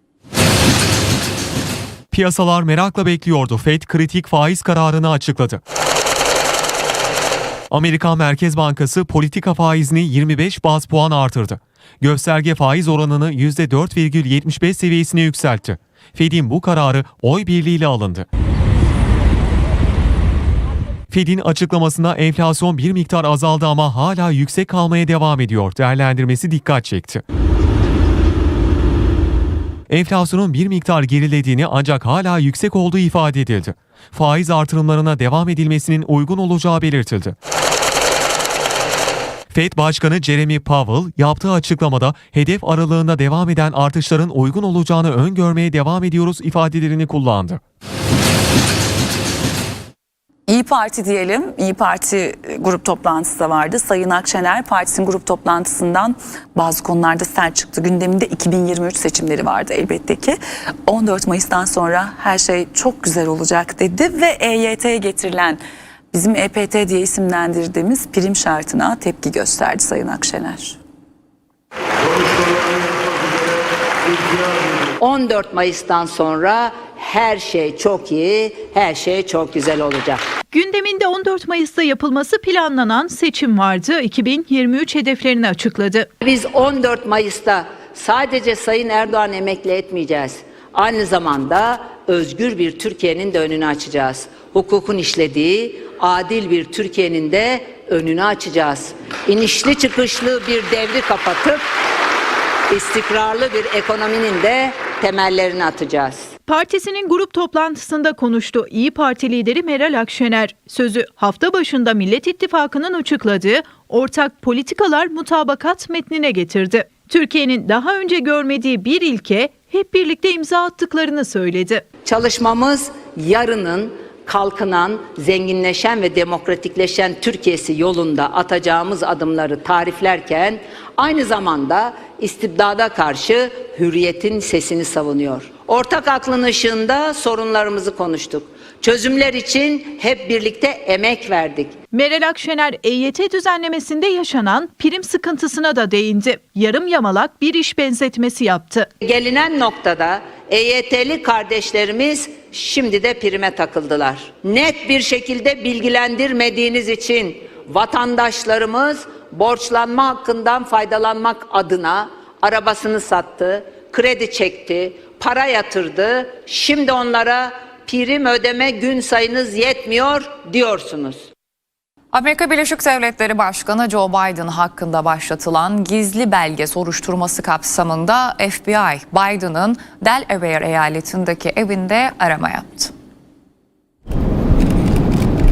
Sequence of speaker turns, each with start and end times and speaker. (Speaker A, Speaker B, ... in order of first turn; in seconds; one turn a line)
Speaker A: 2.1-5.6
Speaker A: 7.7-18.2
Speaker A: 21.1-27.2
Speaker A: 29.9-37.4
Speaker A: 39.5-47.6
Speaker B: 50.5-70.8
Speaker C: 75.0-80.2
Speaker D: 80.5-86.1
Speaker C: 86.2-101.6
Speaker C: 102.7-106.2
Speaker D: 106.5-121.8
Speaker C: 122.0-141.7
Speaker D: 141.9-148.9
Speaker C: 149.0-171.3
Speaker E: 172.1-182.9